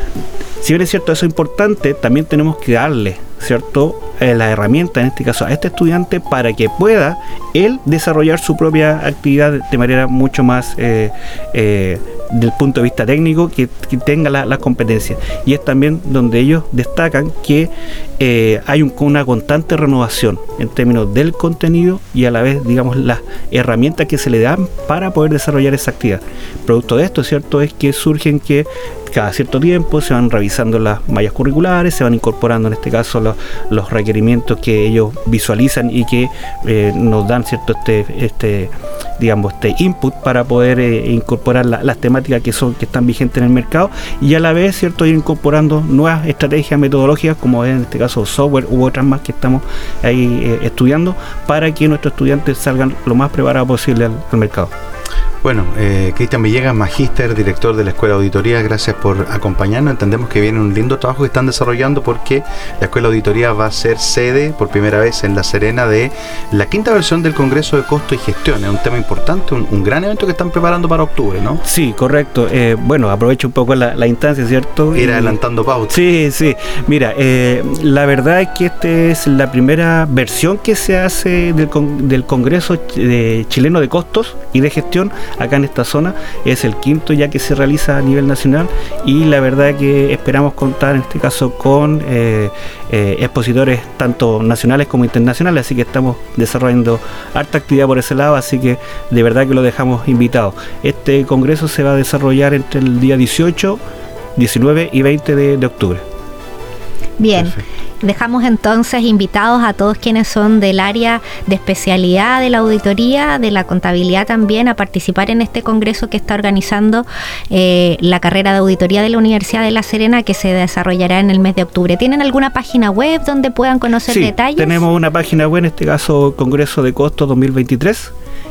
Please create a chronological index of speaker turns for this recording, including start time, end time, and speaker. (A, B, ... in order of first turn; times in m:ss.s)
0:00.6-0:54.7 A
0:55.4-1:11.6 B
1:11.6-1:15.4 A
1:14.9-1:16.0 B
1:15.9-1:43.8 A
1:44.4-1:46.0 A
1:47.2-2:04.8 C
2:04.1-2:08.1 A